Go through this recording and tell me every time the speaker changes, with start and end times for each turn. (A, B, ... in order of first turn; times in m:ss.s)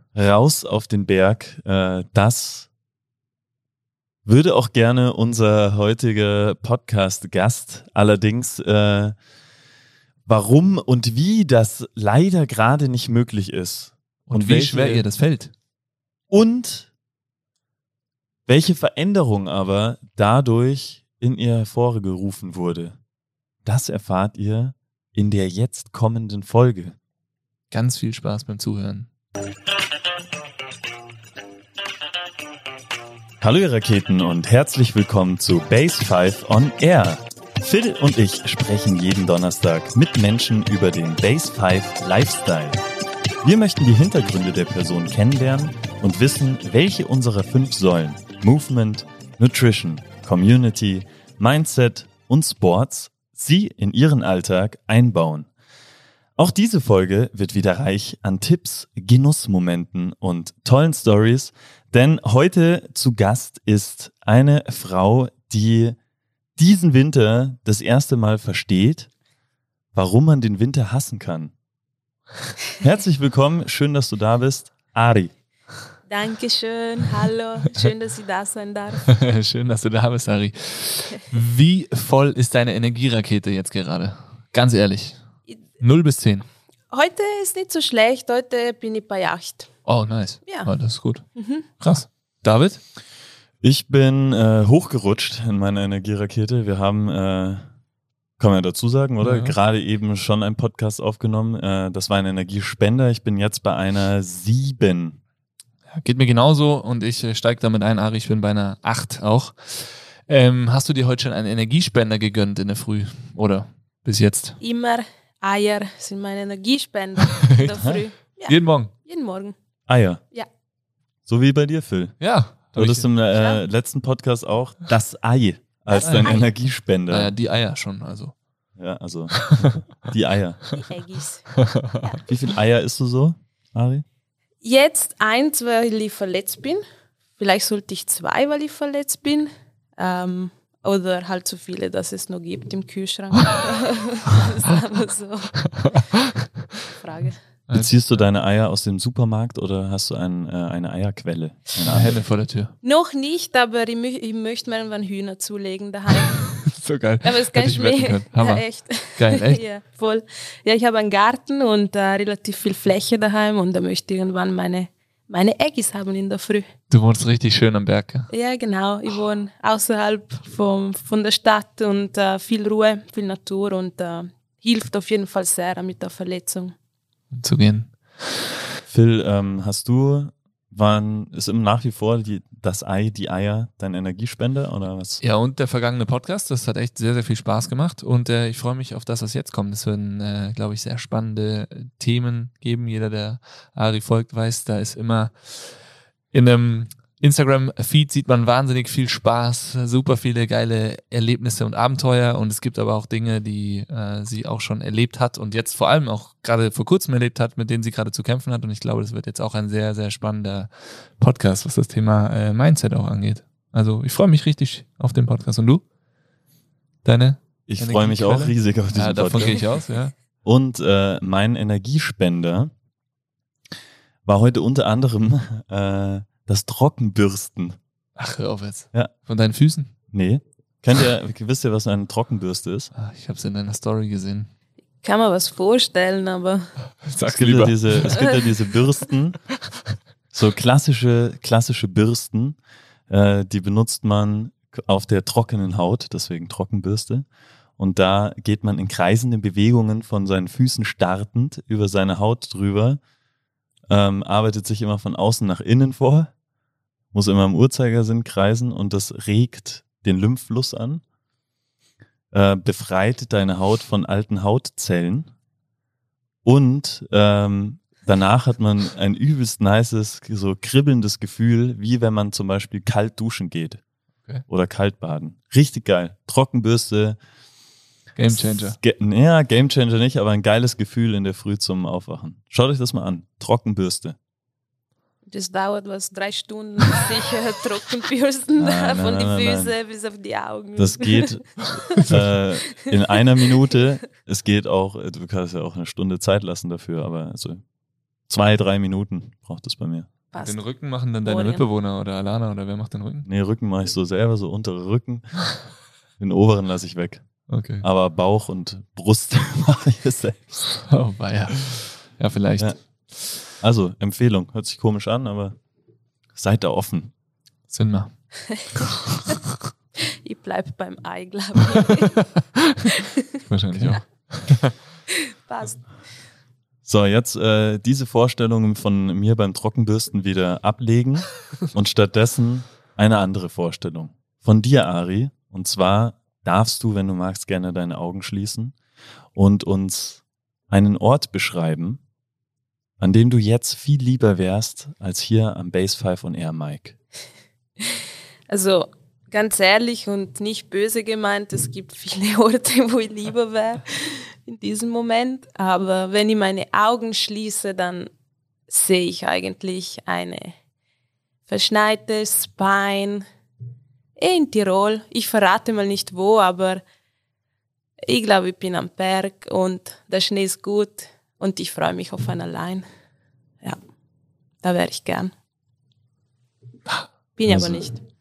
0:00.1-0:02.7 A
0:04.2-0:09.2 A
0:10.3-0:15.0 A
0:14.3-0:15.5 B
0:16.3-0:16.9 A
0:18.5-0:23.0 A
0:23.6-0:27.0 A
0:27.7-0:29.1 B
0:33.4-0:42.8 A
0:43.4-0:55.5 A
0:56.4-1:06.0 A
1:06.6-1:09.1 A
1:09.9-1:11.5 A
1:12.8-1:15.3 A
1:16.1-1:19.1 C
1:19.1-1:25.2 B
1:25.8-1:26.5 B
1:26.9-1:29.7 C
1:29.9-1:31.3 B
1:31.4-1:31.7 C
1:31.8-1:32.8 B
1:33.6-1:37.6 A
1:38.4-1:45.2 A
1:39.2-1:39.6 B
1:45.9-1:54.6 B
1:54.6-1:59.6 C
1:57.3-1:57.8 B
1:58.4-1:58.9 B
1:59.9-2:00.2 A
2:01.3-2:07.3 A
2:02.2-2:03.1 B
2:03.3-2:03.6 C
2:05.9-2:06.4 C
2:06.0-2:06.5 B
2:07.1-2:08.4 B
2:08.8-2:10.8 A
2:10.8-2:12.2 C
2:11.6-2:12.0 B
2:12.2-2:14.0 A
2:14.6-2:16.8 C
2:17.4-2:25.8 C
2:25.8-2:26.3 B
2:26.9-2:27.4 C
2:27.7-2:28.2 B
2:27.7-2:32.2 A
2:31.8-2:32.7 B
2:32.8-2:36.7 C
2:36.2-2:39.6 B
2:37.2-2:46.7 C
2:46.9-2:48.3 B
2:48.3-2:56.8 C
2:57.3-2:58.4 B
2:58.9-3:05.2 A
3:05.2-3:35.8 B
3:37.0-3:40.1 B
3:37.7-3:39.7 A
3:40.4-3:42.7 A
3:44.2-3:47.8 A
3:48.2-3:49.9 B
3:50.1-3:52.9 A
3:53.0-3:54.5 B
3:55.0-3:56.7 C
3:57.0-3:58.3 B
3:57.3-3:59.4 A
3:58.1-3:58.4 C
4:00.3-4:02.6 A
4:03.1-4:07.3 A
4:07.8-4:13.0 A
4:13.9-4:16.3 A
4:17.1-4:21.0 A
4:22.3-4:25.3 A
4:26.4-4:33.8 A
4:34.5-4:37.2 A
4:38.2-4:38.8 B
4:38.3-4:44.2 A
4:45.3-4:52.1 C
4:48.6-4:49.7 A
4:50.8-4:57.6 A
4:58.3-5:00.1 A
5:00.3-5:00.7 C
5:00.4-5:03.3 B
5:01.2-5:01.6 C
5:03.2-5:05.5 A
5:06.2-5:07.2 A
5:07.5-5:07.8 B
5:07.8-5:10.9 A
5:10.9-5:13.4 B
5:13.4-5:15.6 A
5:16.4-5:17.1 A
5:17.7-5:18.9 B
5:20.0-5:22.3 C
5:23.0-5:23.4 C
5:23.5-5:24.8 B
5:25.2-5:25.8 C
5:26.9-5:38.8 A
5:39.4-5:42.0 A
5:43.0-5:47.0 A
5:48.5-5:58.1 C
5:58.7-6:00.6 C
6:01.5-6:03.2 C
6:04.2-6:06.8 C
6:08.0-6:12.9 C
6:14.6-6:15.3 C
6:17.4-6:18.0 C
6:17.5-6:17.9 A